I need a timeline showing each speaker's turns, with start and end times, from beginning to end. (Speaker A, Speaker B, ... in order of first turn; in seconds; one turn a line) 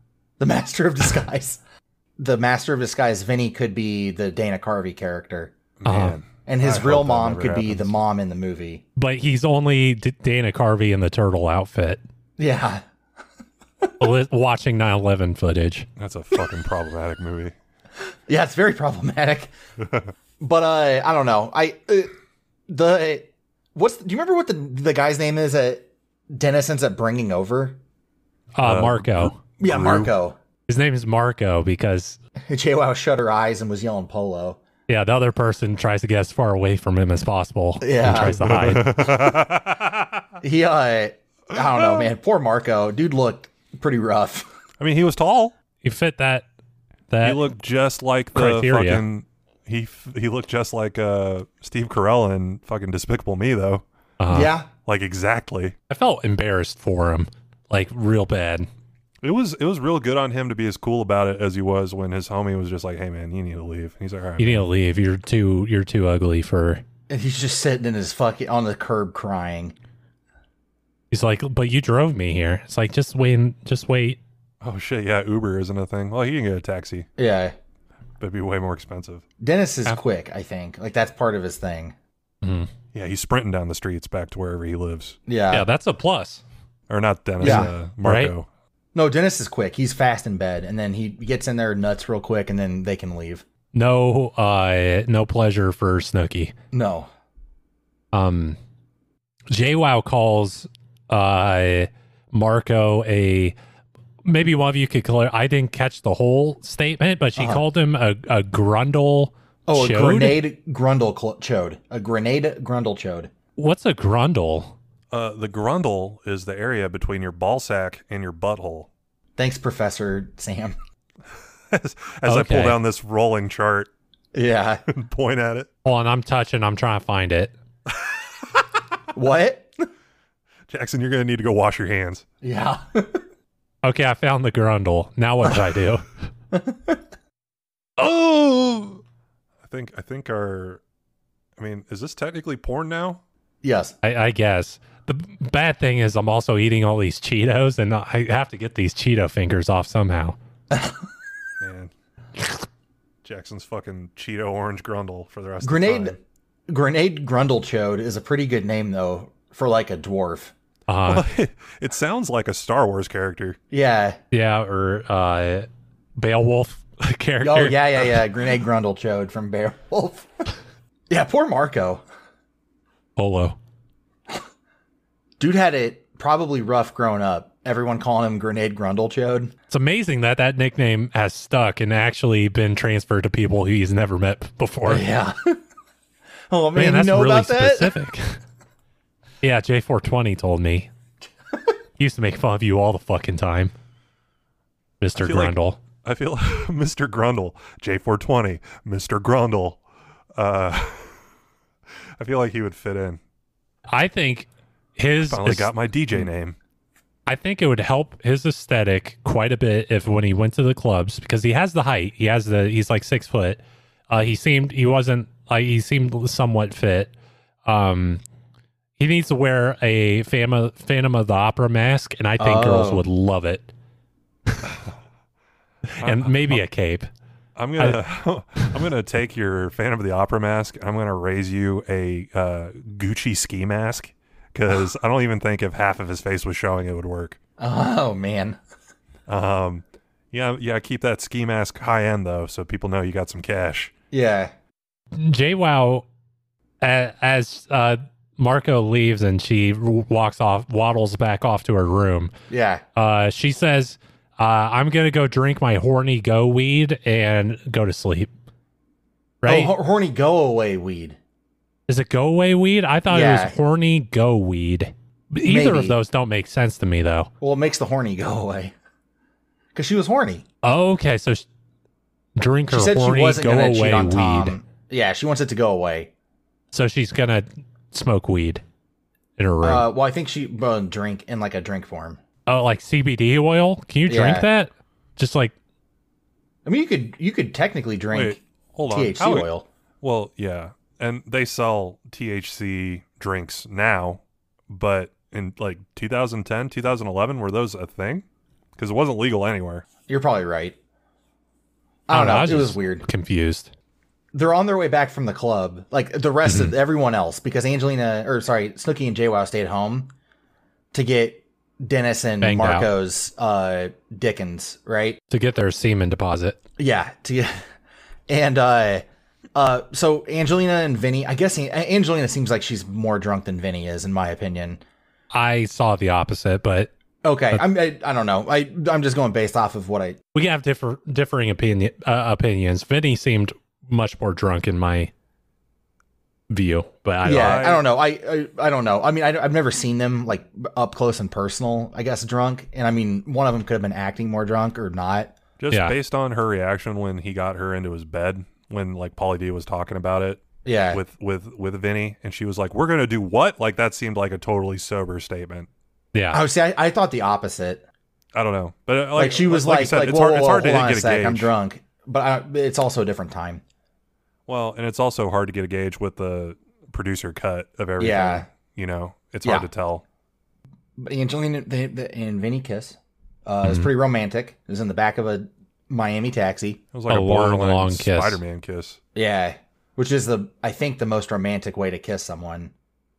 Speaker A: 0.4-1.6
Speaker A: 2.2-5.5
Speaker B: 5.8-7.9
Speaker C: 5.9-6.2
Speaker A: 6.5-8.8
Speaker C: 9.0-12.0
Speaker A: 12.4-12.8
Speaker C: 14.0-15.9
Speaker B: 16.0-17.5
Speaker A: 18.3-19.5
Speaker A: 20.4-22.1
Speaker A: 22.7-27.8
Speaker C: 28.6-29.4
Speaker B: 28.6-30.1
Speaker A: 29.6-30.4
Speaker C: 30.7-32.2
Speaker A: 32.5-34.6
Speaker C: 34.9-38.9
Speaker A: 37.8-38.7
Speaker B: 38.1-40.1
Speaker A: 40.4-44.5
Speaker B: 44.8-45.5
Speaker C: 45.8-46.5
Speaker C: 47.1-47.5
Speaker B: 47.2-53.8
Speaker C: 48.3-49.0
Speaker C: 54.2-54.5
Speaker A: 54.3-54.7
Speaker B: 54.9-55.8
Speaker C: 55.9-58.7
Speaker B: 59.2-64.6
Speaker C: 64.4-66.8
Speaker A: 67.1-69.8
Speaker C: 71.1-74.2
Speaker B: 74.6-77.1
Speaker A: 77.2-77.5
Speaker B: 78.2-79.2
Speaker A: 79.4-82.0
Speaker C: 82.4-82.7
Speaker B: 82.9-85.2
Speaker A: 85.3-85.7
Speaker C: 85.5-86.4
Speaker B: 86.9-88.5
Speaker A: 87.4-87.7
Speaker C: 87.4-88.3
Speaker A: 88.9-93.5
Speaker C: 93.7-96.5
Speaker A: 96.7-97.1
Speaker C: 98.1-98.6
Speaker C: 99.5-103.5
Speaker C: 104.2-110.4
Speaker A: 107.4-107.6
Speaker A: 109.7-113.3
Speaker C: 113.6-114.8
Speaker B: 115.1-118.9
Speaker A: 119.4-120.8
Speaker B: 121.7-123.9
Speaker C: 122.2-122.8
Speaker A: 124.3-124.8
Speaker B: 124.9-125.7
Speaker C: 125.8-127.5
Speaker A: 129.1-129.8
Speaker B: 130.7-132.2
Speaker A: 132.4-133.2
Speaker C: 133.8-136.1
Speaker A: 136.5-137.0
Speaker B: 138.0-139.0
Speaker B: 139.6-140.8
Speaker B: 141.6-143.2
Speaker A: 143.6-144.0
Speaker C: 144.0-150.4
Speaker A: 150.7-151.1
Speaker B: 151.6-151.9
Speaker B: 153.2-156.2
Speaker A: 155.6-156.2
Speaker A: 156.7-160.5
Speaker C: 160.9-161.3
Speaker B: 161.1-163.6
Speaker A: 163.7-164.2
Speaker C: 164.3-168.1
Speaker A: 167.4-170.5
Speaker A: 171.1-172.0
Speaker C: 173.2-173.6
Speaker A: 175.4-179.5
Speaker C: 179.7-185.1
Speaker A: 184.9-185.6
Speaker A: 186.5-187.9
Speaker C: 186.8-188.4
Speaker C: 189.4-190.9
Speaker C: 192.0-193.7
Speaker C: 195.0-195.8
Speaker B: 195.2-199.8
Speaker B: 200.4-201.2
Speaker B: 202.2-203.2
Speaker C: 203.9-205.7
Speaker B: 205.2-206.6
Speaker C: 207.3-217.1
Speaker C: 217.7-218.2
Speaker C: 219.0-223.7
Speaker A: 222.4-223.1
Speaker C: 226.0-227.1
Speaker B: 226.0-226.6
Speaker B: 227.6-237.4
Speaker A: 237.6-238.6
Speaker B: 239.3-243.9
Speaker A: 244.1-244.5
Speaker C: 245.1-246.1
Speaker C: 246.8-252.3
Speaker A: 252.5-252.8
Speaker C: 253.0-258.3
Speaker C: 259.4-259.7
Speaker A: 259.4-261.2
Speaker C: 261.9-267.3
Speaker A: 263.1-263.6
Speaker A: 265.4-266.0
Speaker A: 267.4-268.7
Speaker A: 269.8-270.4
Speaker C: 270.6-271.5
Speaker C: 272.4-274.6
Speaker A: 272.7-276.1
Speaker C: 276.7-278.6
Speaker C: 279.4-279.9
Speaker A: 279.6-282.2
Speaker C: 282.5-285.5
Speaker A: 284.1-284.5
Speaker A: 286.6-288.4
Speaker B: 288.1-289.5
Speaker A: 288.9-289.7
Speaker B: 290.0-298.2
Speaker B: 298.8-299.9
Speaker A: 300.1-300.8
Speaker A: 302.1-303.0
Speaker C: 302.1-303.7
Speaker A: 304.3-310.1
Speaker C: 306.5-306.7
Speaker A: 310.9-315.2
Speaker C: 312.4-312.9
Speaker C: 315.3-316.6
Speaker A: 316.8-317.6
Speaker A: 318.3-319.0
Speaker A: 319.6-324.8
Speaker C: 325.3-326.9
Speaker A: 327.2-330.2
Speaker C: 330.3-335.1
Speaker C: 336.5-337.6
Speaker A: 337.2-345.4
Speaker B: 337.3-337.8
Speaker B: 345.6-355.7
Speaker A: 350.6-351.0
Speaker C: 356.1-356.4
Speaker A: 356.3-357.8
Speaker B: 358.3-361.5
Speaker A: 359.1-363.6
Speaker B: 364.5-370.1
Speaker A: 368.0-368.5
Speaker A: 371.0-376.8
Speaker C: 373.6-373.9
Speaker B: 376.9-379.0
Speaker C: 377.1-378.4
Speaker A: 379.1-382.7